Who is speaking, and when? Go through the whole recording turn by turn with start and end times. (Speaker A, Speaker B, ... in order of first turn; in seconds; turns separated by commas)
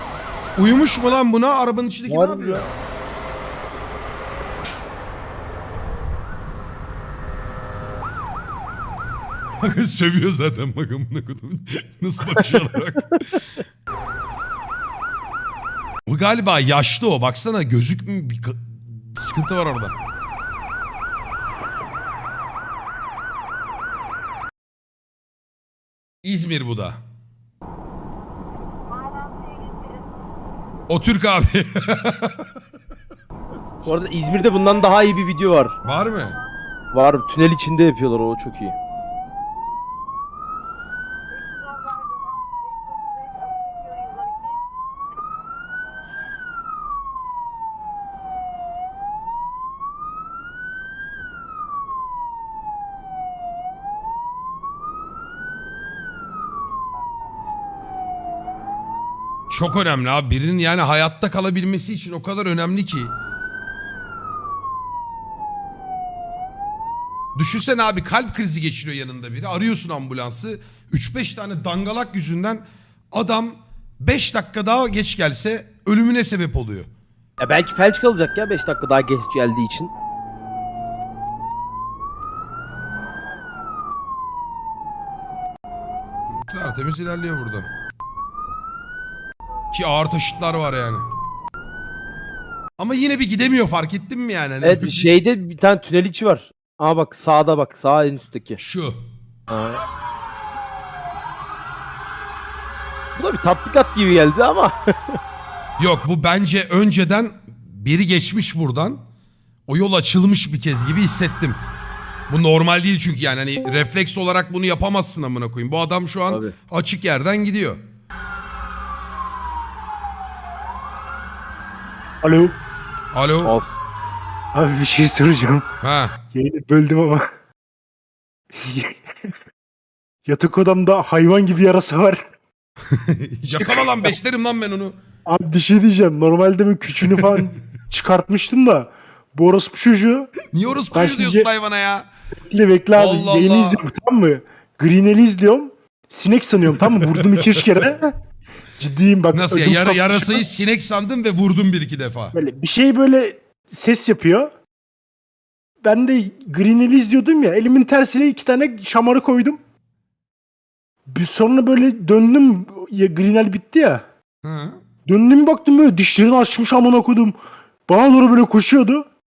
Speaker A: 0.6-2.7, Speaker B: 2.1-2.7, Speaker A: 9.6-13.4, Speaker A: 16.1-19.9, Speaker A: 26.2-27.0, Speaker A: 30.9-32.5, Speaker B: 33.8-35.8, Speaker A: 35.8-36.4, Speaker B: 36.9-38.8, Speaker A: 59.5-63.1, Speaker A: 67.3-76.9, Speaker B: 77.4-79.9, Speaker A: 86.3-87.7, Speaker A: 89.7-91.1, Speaker A: 92.8-95.1, Speaker B: 94.6-98.6, Speaker A: 98.6-99.0, Speaker B: 99.5-99.8, Speaker B: 103.2-105.2, Speaker A: 105.8-109.0, Speaker A: 109.7-111.6, Speaker A: 112.3-117.8, Speaker B: 116.3-116.5, Speaker C: 122.2-122.6, Speaker A: 123.1-123.5, Speaker B: 123.4-123.8, Speaker C: 124.5-125.7, Speaker A: 125.8-126.2, Speaker C: 126.3-127.3, Speaker C: 128.5-129.0, Speaker C: 130.2-132.3, Speaker A: 132.9-134.9, Speaker C: 133.6-133.9, Speaker C: 135.2-140.3, Speaker A: 137.1-137.4, Speaker A: 140.5-142.1, Speaker C: 140.9-141.5, Speaker C: 142.3-148.1, Speaker A: 142.9-143.8, Speaker A: 147.1-147.6, Speaker C: 148.8-150.4, Speaker A: 149.3-152.4, Speaker C: 152.3-154.5, Speaker C: 155.8-159.6, Speaker C: 161.1-164.0, Speaker A: 164.4-164.8, Speaker C: 165.1-167.4, Speaker C: 167.9-169.1